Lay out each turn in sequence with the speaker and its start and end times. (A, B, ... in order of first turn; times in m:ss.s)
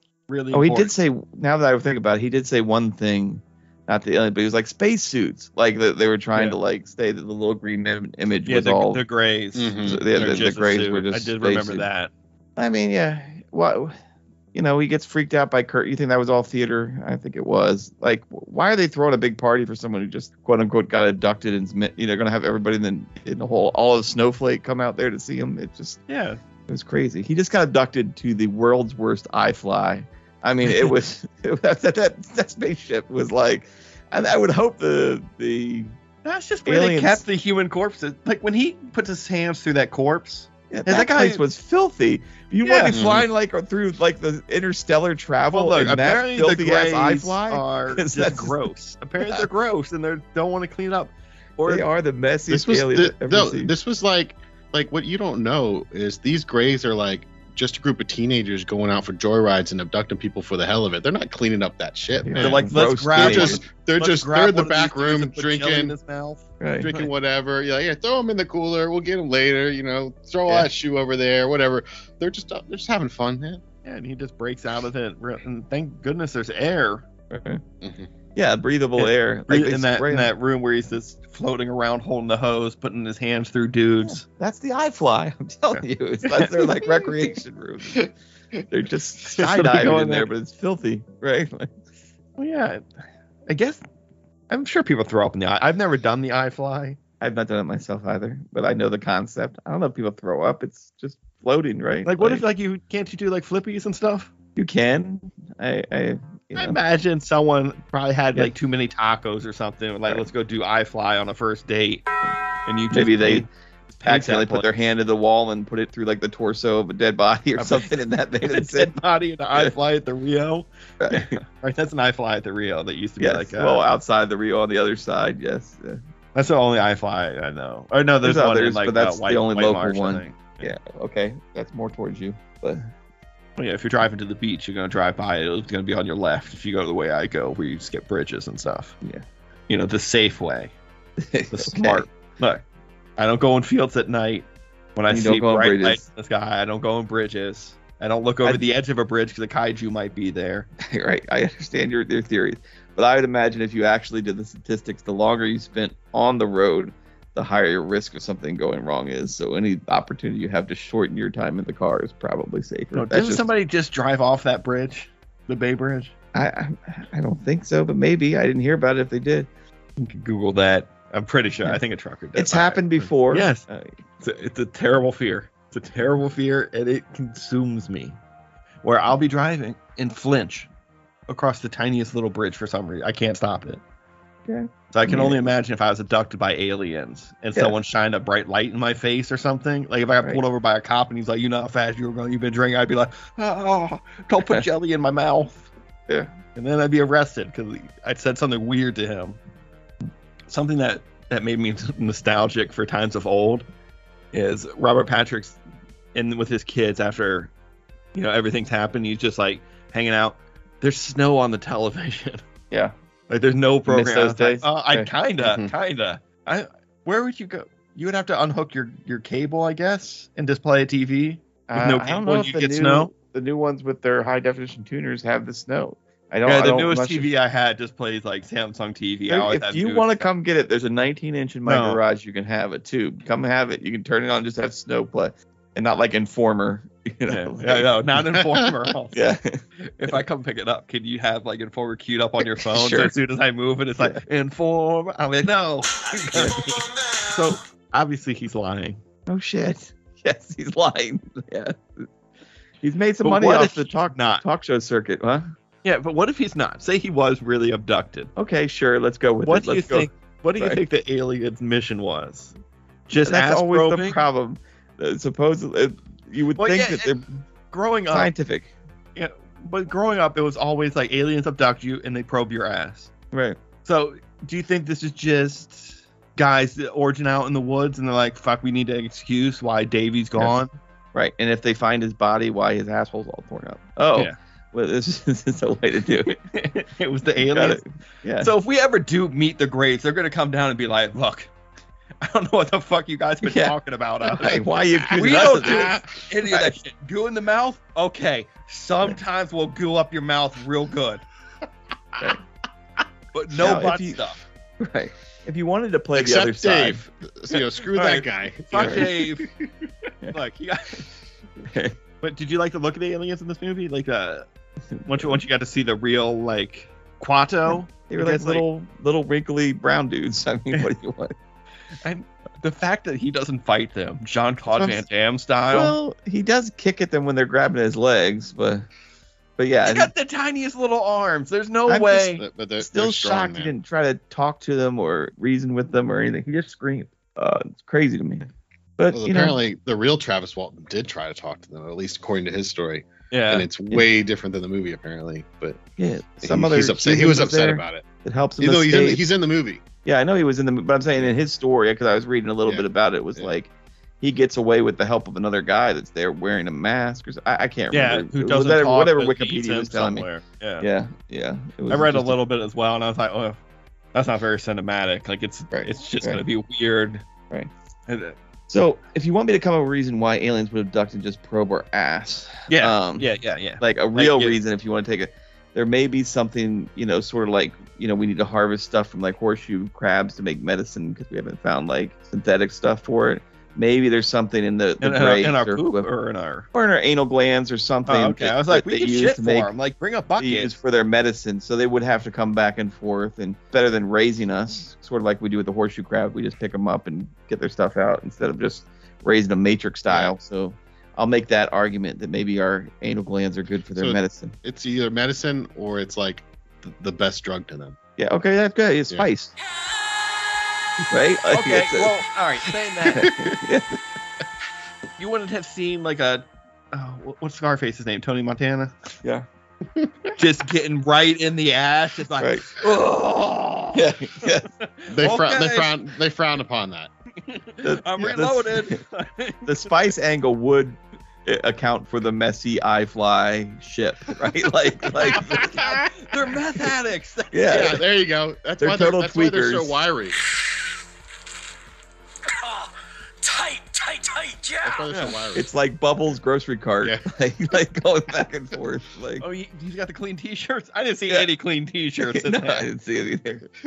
0:00.3-0:00.9 A
0:00.5-0:09.0 B
0:08.5-0:12.1 A
0:09.5-0:10.4 C
0:09.8-0:11.8 B
0:12.6-0:13.9 B
0:14.5-0:26.0 B
0:26.1-0:26.4 A
0:26.7-0:35.9 B
0:36.2-0:41.4 A
0:36.6-0:37.2 B
0:40.7-0:48.6 B
0:42.6-0:43.0 A
0:42.9-0:43.3 C
0:45.5-0:51.9 A
0:51.7-0:53.7 B
0:52.5-1:05.9 C
1:02.2-1:03.6 B
1:02.4-1:07.1 A
1:06.6-1:06.9 B
1:06.8-1:13.6 C
1:13.8-1:17.0 A
1:17.3-1:17.6 B
1:17.8-1:18.1 C
1:18.3-1:20.3 B
1:19.0-1:24.2 A
1:24.0-1:28.1 B
1:25.7-1:27.1 A
1:28.7-1:31.7 B
1:29.3-1:30.3 A
1:32.4-1:32.8 A
1:33.5-1:33.8 A
1:34.5-1:37.0 A
1:37.2-1:42.4 B
1:42.0-1:44.3 A
1:44.6-1:46.8 B
1:46.6-1:52.0 A
1:52.6-1:54.7 A
1:52.9-1:53.4 B
1:54.0-1:58.9 B
1:57.6-2:03.8 A
2:01.0-2:01.4 B
2:03.2-2:06.0 B
2:06.3-2:10.7 A
2:08.2-2:12.9 B
2:13.6-2:18.9 A
2:19.7-2:20.7 A
2:21.2-2:22.0 B
2:21.5-2:22.6 A
2:23.2-2:30.7 A
2:25.1-2:26.0 B
2:30.8-2:43.5 B
2:42.9-2:46.1 A
2:46.3-2:49.5 B
2:50.0-2:53.6 A
2:52.4-2:53.9 B
2:54.2-2:58.2 A
2:58.8-3:00.7 A
3:01.3-3:03.8 A
3:04.5-3:05.4 B
3:04.9-3:15.7 A
3:16.5-3:19.4 A
3:20.5-3:23.6 A
3:24.3-3:25.6 A
3:26.1-3:27.5 A
3:28.1-3:32.4 A
3:33.3-3:43.1 A
3:33.9-3:35.1 B
3:35.4-3:35.7 C
3:41.7-3:47.3 B
3:46.4-3:50.2 A
3:49.3-3:57.9 B
3:51.6-3:52.0 A
3:57.3-3:59.3 A
3:59.1-4:00.2 B
4:00.0-4:09.0 A
4:02.4-4:03.1 B
4:09.3-4:12.1 B
4:12.8-4:15.4 B
4:13.2-4:14.4 A
4:15.8-4:18.3 A
4:18.4-4:20.8 B
4:19.4-4:22.5 A
4:23.1-4:24.2 A
4:23.2-4:27.2 B
4:26.6-4:27.2 A
4:27.7-4:28.3 A
4:28.1-4:28.7 B
4:29.2-4:33.1 A
4:33.3-4:33.6 B
4:33.8-4:40.7 A
4:41.1-4:46.4 B
4:46.2-4:47.8 A
4:47.4-4:48.5 B
4:48.4-4:51.5 A
4:52.2-5:01.2 A
4:53.4-4:56.7 B
5:03.3-5:04.4 A
5:03.5-5:04.2 B
5:04.8-5:07.1 B
5:06.1-5:09.3 C
5:07.9-5:09.5 A
5:08.8-5:09.1 B
5:10.3-5:11.0 A
5:11.7-5:12.0 B
5:12.2-5:14.4 A
5:15.0-5:15.4 B
5:15.1-5:18.6 A
5:17.7-5:21.3 B
5:22.0-5:26.0 A
5:24.8-5:25.0 B
5:25.7-5:28.8 B
5:29.6-5:30.1 B
5:29.8-5:32.4 A
5:31.9-5:38.4 B
5:32.4-5:33.7 C
5:39.0-5:39.6 B
5:39.1-5:45.8 C
5:43.3-5:43.7 A
5:46.0-5:49.2 B
5:46.4-5:48.0 C
5:48.6-5:49.8 C
5:50.0-6:00.3 B
5:57.9-6:00.9 A
6:00.8-6:02.4 B
6:01.9-6:03.6 A
6:04.1-6:07.2 A
6:05.7-6:06.4 B
6:08.1-6:08.4 A
6:08.7-6:26.1 B
6:12.7-6:14.6 A
6:25.0-6:26.7 A
6:26.7-6:29.7 B
6:28.0-6:30.8 A
6:30.4-6:44.5 B
6:44.0-6:48.0 C
6:48.2-6:49.5 B
6:51.1-6:52.1 B
6:51.5-6:53.4 A
6:53.1-6:53.9 B
6:55.2-6:58.9 A
7:00.3-7:06.0 A
7:02.4-7:02.7 B
7:03.9-7:04.7 B
7:05.1-7:07.1 C
7:07.4-7:09.9 A
7:07.8-7:09.0 B
7:09.6-7:16.0 B
7:15.3-7:18.0 A
7:17.5-7:18.0 B
7:17.7-7:20.4 C
7:18.8-7:20.0 B
7:22.5-7:25.1 D
7:24.8-7:25.7 C
7:25.5-7:29.4 B
7:29.4-7:32.9 A
7:32.2-7:33.6 B